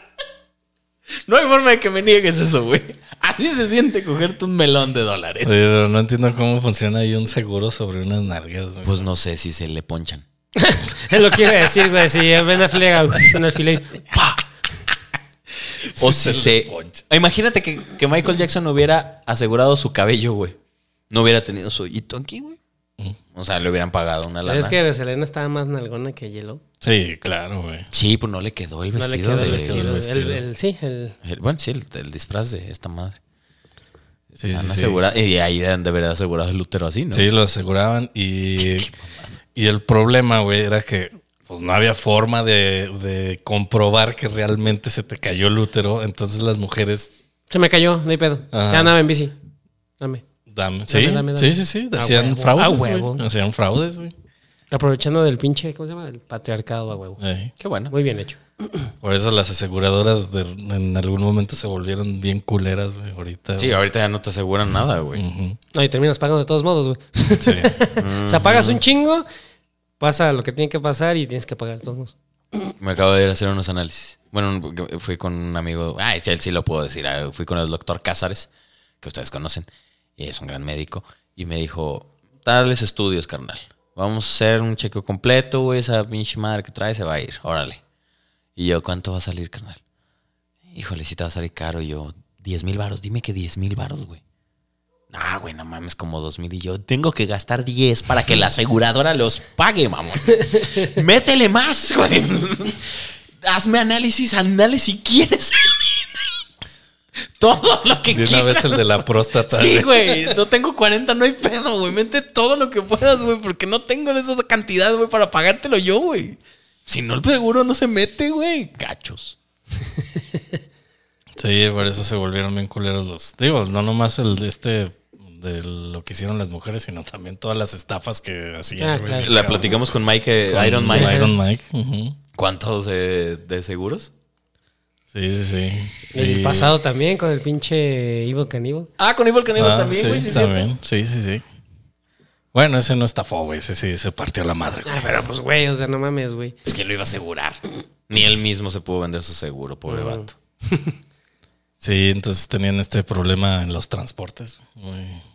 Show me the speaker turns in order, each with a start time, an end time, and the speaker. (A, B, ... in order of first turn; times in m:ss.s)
0:01.2-0:05.5 A
0:05.4-0:09.0 B
0:08.8-0:10.2 A
0:10.6-0:14.1 C
0:14.1-0:14.4 A
0:15.7-0:20.6 A
0:16.0-0:17.0 B
0:21.1-0:22.6 A
0:23.3-0:24.8 A
0:24.4-0:26.6 C
0:26.8-0:27.9 B
0:27.9-0:29.9 A
0:28.9-0:31.2 C
0:29.3-0:30.4 B
0:31.2-0:33.2 A
0:34.4-0:35.0 B
0:34.5-0:37.3 A
0:37.1-0:38.9 B
0:38.6-0:39.1 A
0:39.6-0:47.1 B
0:47.5-0:49.3 C
0:48.5-0:48.9 B
0:50.0-0:50.2 C
0:50.5-0:54.1 B
0:50.9-0:53.2 C
0:54.7-0:57.2 C
0:57.2-0:57.5 B
0:57.6-0:57.9 A
0:57.9-0:58.9 C
0:59.0-1:03.8 B
1:03.6-1:05.2 A
1:05.1-1:05.6 B
1:05.7-1:09.3 C
1:07.4-1:07.7 B
1:07.9-1:08.8 A
1:10.0-1:12.1 C
1:12.8-1:18.5 A
1:19.0-1:27.8 A
1:28.6-1:29.8 A
1:30.7-1:34.2 A
1:35.1-1:46.3 A
1:47.4-1:59.4 A
1:48.1-1:50.4 B
2:01.4-2:09.9 B
2:08.8-2:09.6 C
2:09.2-2:11.2 A
2:10.5-2:12.2 B
2:10.9-2:11.4 C
2:12.4-2:14.1 A
2:15.1-2:16.8 B
2:16.1-2:18.9 C
2:19.0-2:20.7 A
2:19.6-2:21.4 B
2:22.5-2:25.3 B
2:24.9-2:26.6 C
2:26.6-2:30.3 A
2:29.9-2:31.0 C
2:31.8-2:35.2 B